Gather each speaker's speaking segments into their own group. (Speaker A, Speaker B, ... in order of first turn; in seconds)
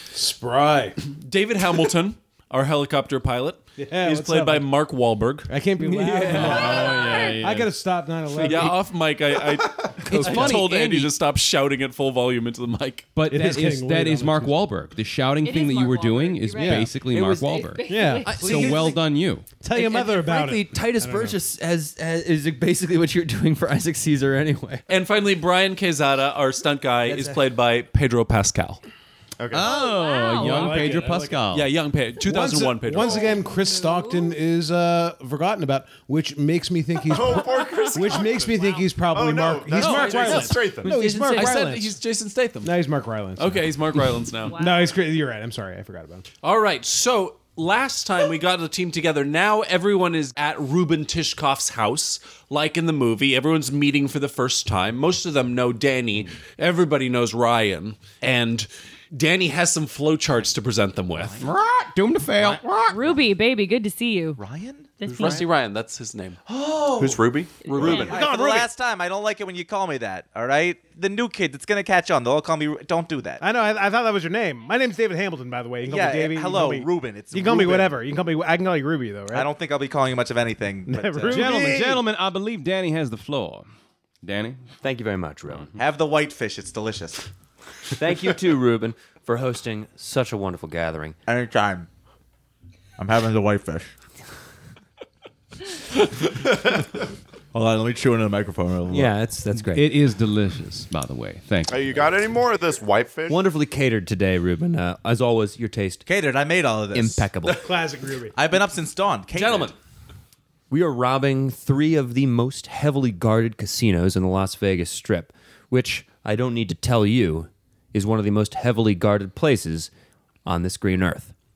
Speaker A: 0.1-0.9, 3.8-4.7, 5.5-8.9, 13.2-14.6, 16.6-16.9, 17.9-18.3, 19.6-21.4, 30.3-31.4, 32.2-42.0, 42.6-46.2, 67.9-68.7, 73.4-79.5, 80.9-82.0, 107.6-108.3
Speaker B: 1.0-7.0, 8.4-13.2, 24.9-28.8, 31.5-33.3, 39.7-40.7, 41.2-42.8, 43.4-44.6, 46.4-61.4, 65.1-66.4, 67.0-68.2
Speaker C: 6.3-7.7, 10.1-11.1, 13.1-19.5, 29.5-31.7, 61.4-63.0, 81.3-83.7, 84.2-84.6, 99.6-102.2
Speaker D: 6.3-7.4, 15.4-19.0, 29.8-30.9, 33.0-34.4, 37.4-38.8, 44.5-44.9, 62.9-64.4, 65.0-65.5, 67.6-68.2
Speaker E: 10.0-10.6, 17.0-19.0, 19.7-24.8, 27.1-27.4, 40.3-41.6, 84.8-85.7, 88.0-91.2, 98.9-99.9, 103.3-106.0, 106.9-107.7, 109.3-109.8, 110.7-119.9, 120.4-121.3
Speaker F: 29.4-29.8, 37.1-40.9, 67.0-68.0, 101.7-103.4
Speaker G: 61.1-61.5, 62.4-63.2, 64.4-65.4, 66.5-67.2, 67.8-73.4, 75.8-78.0, 79.3-81.7, 85.8-87.3, 91.3-91.9, 93.0-93.9, 96.1-97.0, 97.5-99.1, 106.0-107.3, 108.3-109.7